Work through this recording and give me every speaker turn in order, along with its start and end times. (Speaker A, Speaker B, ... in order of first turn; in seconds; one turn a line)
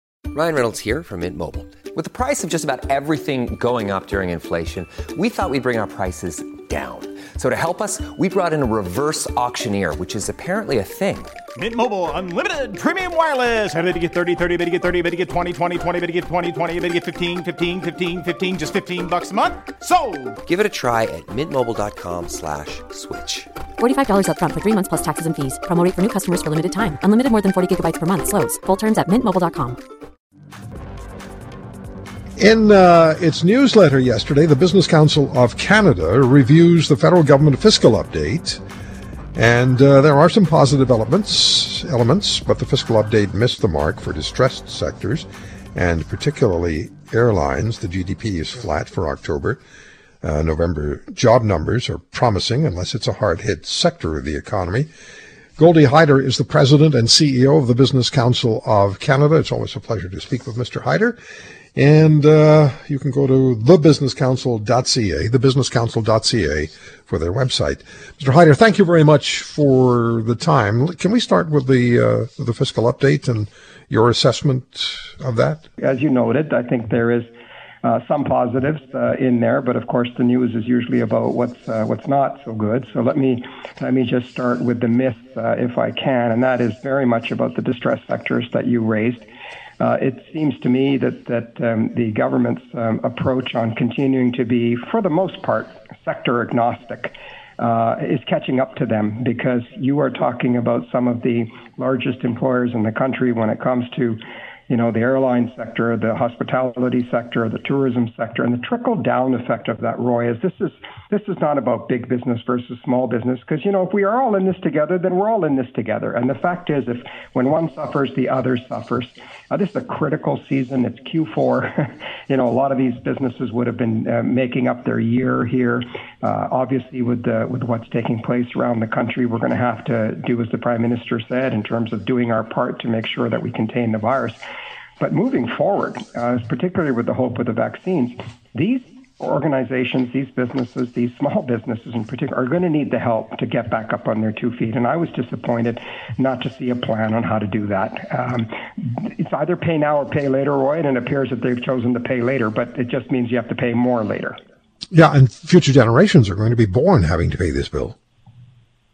Speaker A: 0.3-11.3
Speaker B: 11.6-20.3
Speaker A: 20.4-23.5
Speaker C: 23.8-29.8
Speaker D: 32.4-38.6
Speaker D: 39.3-49.6
Speaker D: 50.2-54.9
Speaker D: 55.6-61.2
Speaker D: 61.7-75.7
Speaker E: 75.8-77.3
Speaker E: 77.8-89.3
Speaker E: 89.8-134.4
Speaker E: 135.0-154.4
Speaker D: 154.9-157.9